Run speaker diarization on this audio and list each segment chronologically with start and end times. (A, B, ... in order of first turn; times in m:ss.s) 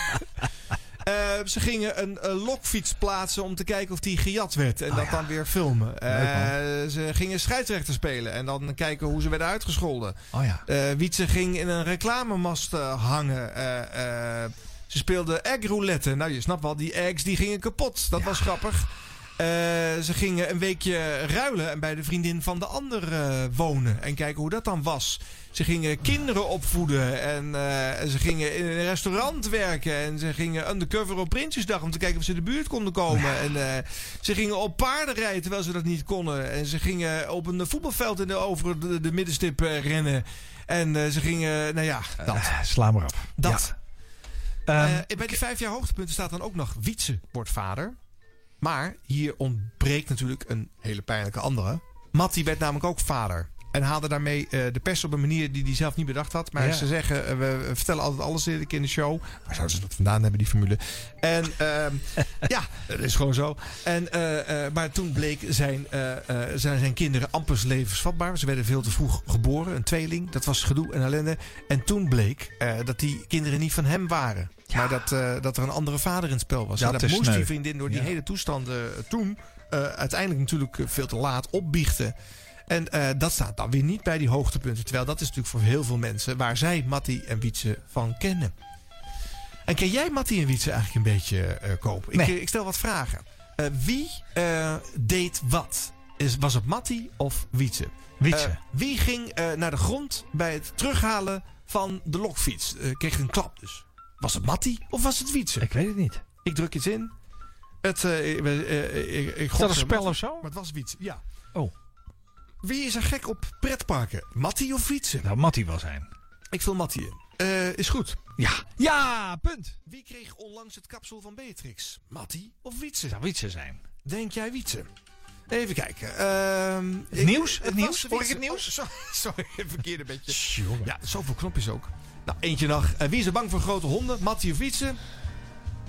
0:01.0-0:42.5 A
0:04.9-0:05.3 B
0:06.1-0:06.5 B
0:10.3-0:10.6 B
0:18.2-0:18.4 B
0:42.2-0:43.7 B
0:43.4-0:43.7 A
0:44.7-0:45.3 B
0:44.8-0:48.0 A
0:48.6-1:22.2 A
0:56.6-0:56.9 B
1:16.8-1:18.1 B
1:22.7-1:28.5 A
1:29.7-1:45.7 A
1:38.2-1:38.6 B
1:45.6-1:46.2 B
1:46.4-1:47.1 A
1:47.8-1:51.2 A
1:49.6-1:50.5 B
1:52.6-1:55.3 A
1:55.2-1:56.1 B
1:56.5-1:58.2 A
1:58.4-1:59.8 B
1:59.9-2:03.2 A
2:03.1-2:03.8 B
2:04.0-2:04.9 A
2:05.5-2:15.0 A
2:07.1-2:08.7 B
2:10.3-2:10.9 B